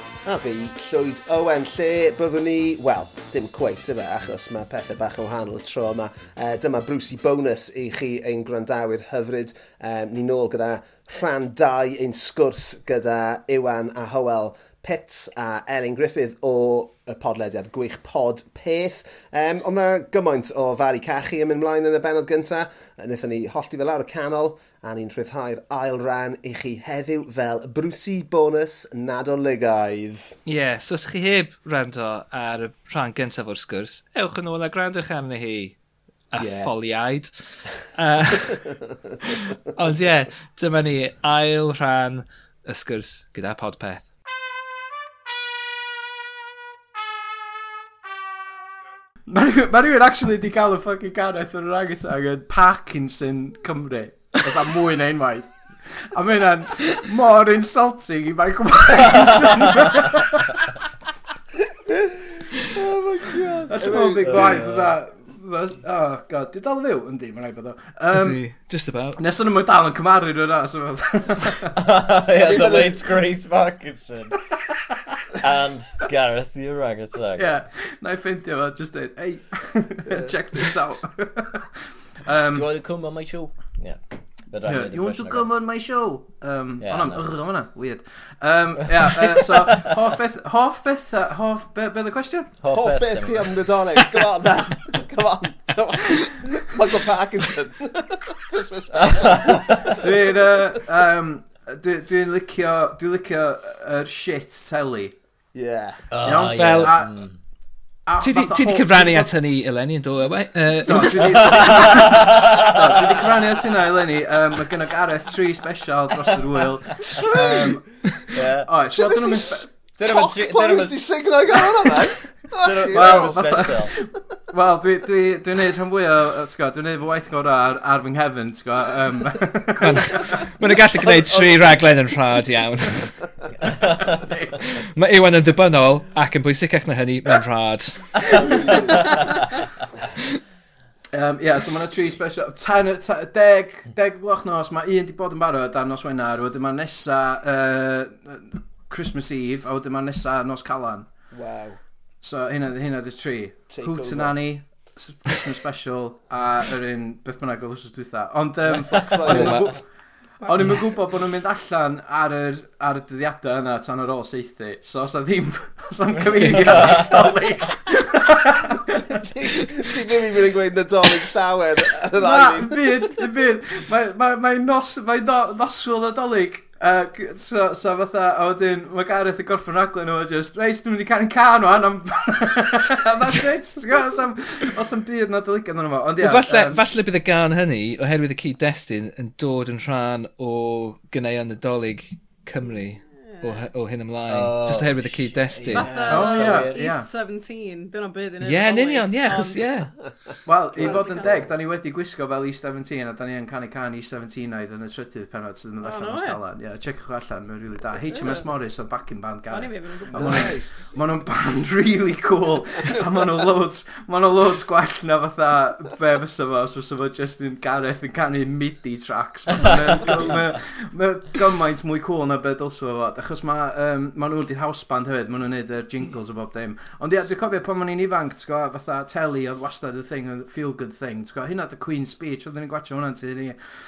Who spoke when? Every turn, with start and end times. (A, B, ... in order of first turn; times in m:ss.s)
0:00.2-0:30.4 A
0:30.4-0:35.8 B
0:36.3-0:37.3 B
0:36.4-0:36.7 A
0:37.9-0:38.6 B
0:39.2-0:44.0 B
0:49.3-1:00.6 C
0:59.1-0:59.5 D
1:01.9-1:04.6 A
1:03.7-1:08.4 C
1:04.2-1:04.9 D
1:08.1-1:09.2 B
1:09.2-1:11.8 C
1:11.7-1:14.4 D
1:12.4-1:13.0 A
1:14.5-1:15.3 C
1:15.4-1:17.6 D
1:17.4-1:21.7 C
1:22.2-1:22.7 C
1:22.5-1:24.0 D
1:24.5-1:25.4 D
1:24.6-1:32.5 C
1:26.8-1:27.2 D
1:29.3-1:29.9 D
1:32.6-1:34.1 D
1:32.7-1:40.2 A
1:38.9-1:40.0 D
1:40.0-1:45.1 C
1:45.5-1:46.0 A
1:46.1-1:47.4 D
1:46.2-1:47.2 C
1:46.6-1:46.9 B
1:48.0-1:49.3 C
1:48.2-1:51.7 B
1:50.8-1:59.7 C
1:51.2-1:53.2 D
1:57.0-1:57.8 A
1:58.3-1:58.7 D
1:58.9-2:03.7 A
2:00.0-2:01.0 D
2:01.6-2:01.9 D
2:02.6-2:03.9 D
2:02.9-2:10.4 C
2:09.8-2:13.2 B
2:11.0-2:11.6 A
2:13.7-2:14.2 D
2:14.0-2:14.6 C
2:14.8-2:18.8 B
2:18.2-2:19.2 A
2:19.1-2:19.4 E
2:21.1-2:31.1 C
2:31.3-2:31.8 A
2:32.2-2:39.8 C
2:33.7-2:34.4 A
2:39.0-2:39.7 A
2:39.2-2:39.7 B
2:40.4-2:49.2 C
2:46.2-2:47.3 D
2:46.2-2:46.8 B
2:48.9-2:53.1 A
2:52.2-3:06.8 C
3:06.2-3:15.9 B
3:14.3-3:15.3 D
3:15.5-3:16.4 A
3:15.7-3:19.6 E
3:16.0-3:16.8 D
3:16.1-3:17.1 C
3:18.4-3:19.9 B
3:20.4-3:53.6 C
3:20.8-3:21.5 E
3:20.8-3:21.4 A
3:25.8-3:26.4 E
3:28.1-3:28.5 E
3:29.5-3:30.5 E
3:30.1-3:30.9 A